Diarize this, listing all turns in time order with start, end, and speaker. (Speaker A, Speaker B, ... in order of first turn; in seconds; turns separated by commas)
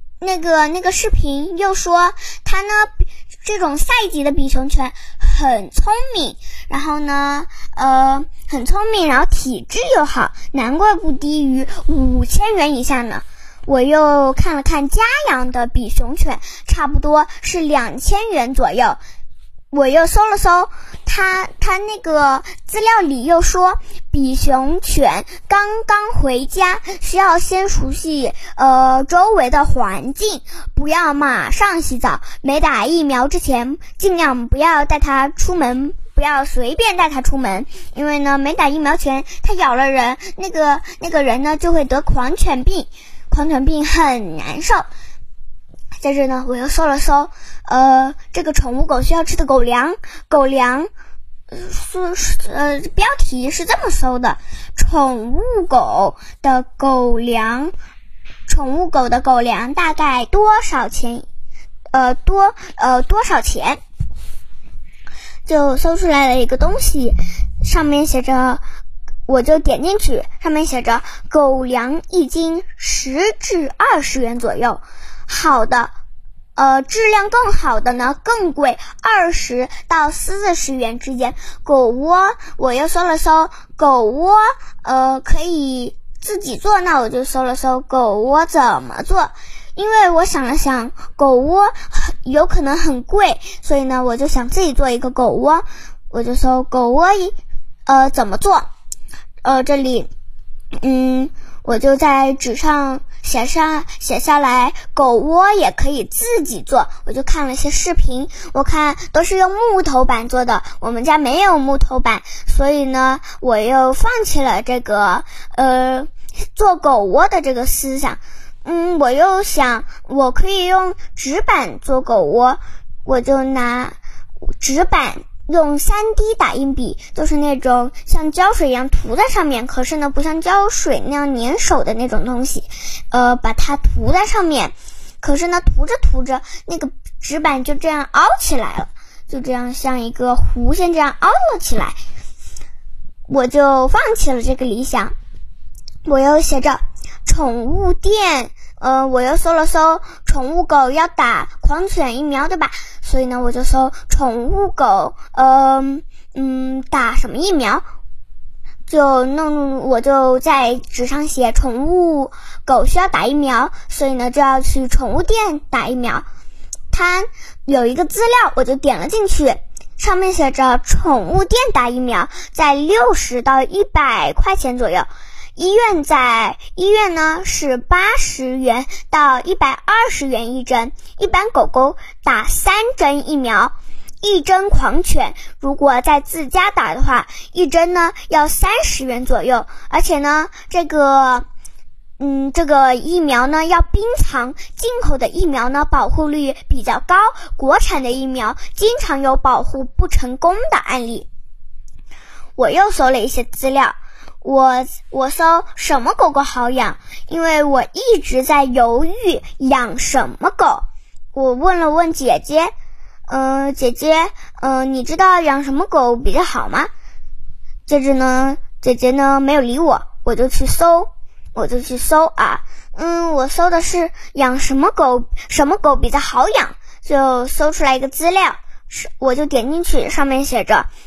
Speaker A: 0.2-19.0, Speaker A: 19.7-44.9, Speaker A: 46.0-50.9, Speaker A: 51.5-57.7, Speaker A: 58.5-61.3, Speaker A: 61.9-63.8, Speaker A: 65.5-68.6, Speaker A: 69.3-75.9, Speaker A: 76.6-98.7, Speaker A: 99.4-100.1, Speaker A: 100.8-124.0, Speaker A: 124.6-142.0, Speaker A: 143.3-145.1, Speaker A: 146.1-157.8, Speaker A: 158.9-166.2, Speaker A: 166.9-191.5, Speaker A: 192.2-201.3, Speaker A: 202.6-212.7, Speaker A: 213.3-216.9, Speaker A: 217.9-230.9